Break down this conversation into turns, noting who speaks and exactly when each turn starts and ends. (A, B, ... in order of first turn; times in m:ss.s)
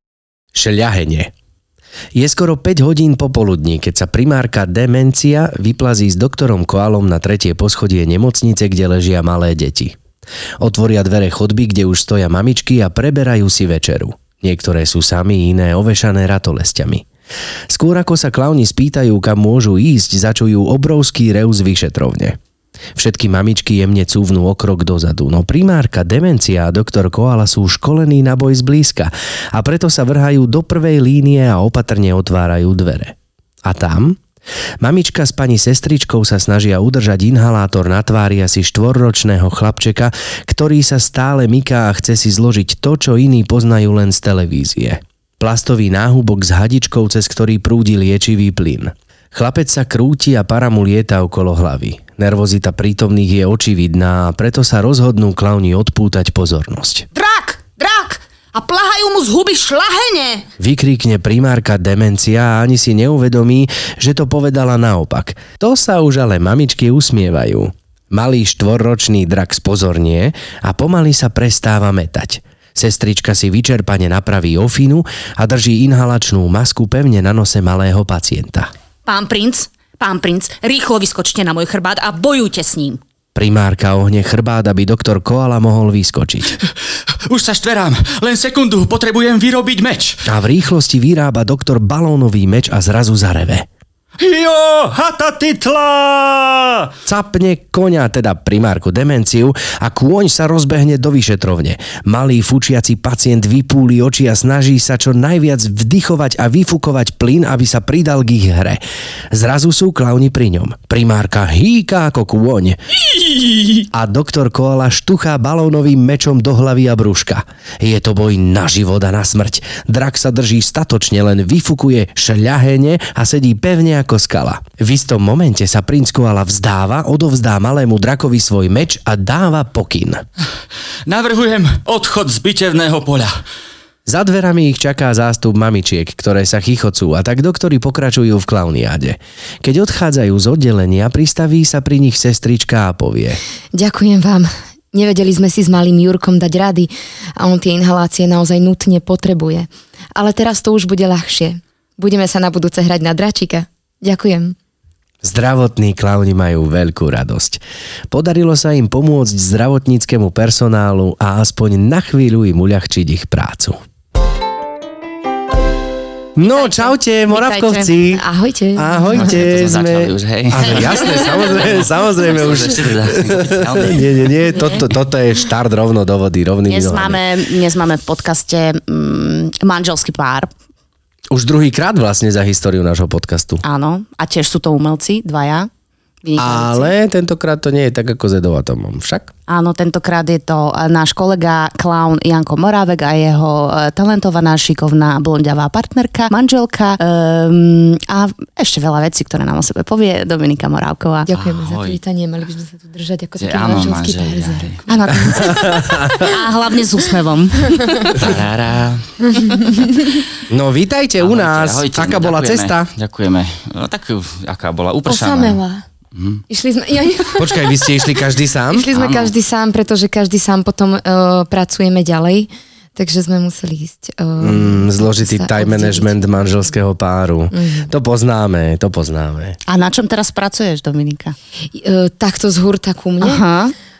0:00.6-0:01.3 A
0:02.1-0:10.0 A
0:10.6-0:17.1 A
0:17.7-0:22.4 A
0:23.0-0:34.2 A
0:34.8-0:57.1 A
0:57.1-1:00.5 B
1:00.6-1:18.7 A
1:19.1-1:23.0 B
1:23.4-1:26.5 A
1:27.3-1:30.2 C
1:30.3-1:33.7 A
1:34.2-1:36.9 C
1:37.1-1:48.8 A
1:49.3-1:52.8 A
1:53.7-2:10.2 A
2:11.1-2:13.4 C
2:14.1-2:23.4 A
2:23.7-2:34.6 D
2:35.2-2:43.8 A
2:46.4-2:48.2 A
2:46.6-2:49.4 D
2:48.8-2:57.2 A
2:49.1-2:54.1 C
2:56.7-3:00.5 B
3:01.3-3:03.6 A
3:03.6-3:05.7 B
3:06.2-3:06.9 B
3:06.4-3:09.3 A
3:09.5-3:21.3 B
3:21.2-3:26.3 D
3:21.4-3:22.0 C
3:23.4-3:24.8 C
3:24.9-3:28.4 B
3:25.3-3:26.3 A
3:28.2-3:29.1 C
3:29.3-3:30.2 D
3:30.5-3:32.9 A
3:31.2-3:35.6 C
3:35.1-3:35.8 D
3:36.1-3:36.4 C
3:36.5-3:38.2 D
3:37.4-3:38.9 A
3:38.7-3:46.2 D
3:38.9-3:39.3 C
3:44.4-3:49.6 A
3:47.5-3:47.9 D
3:49.7-3:51.4 B
3:51.7-3:53.4 D
3:53.2-3:53.7 B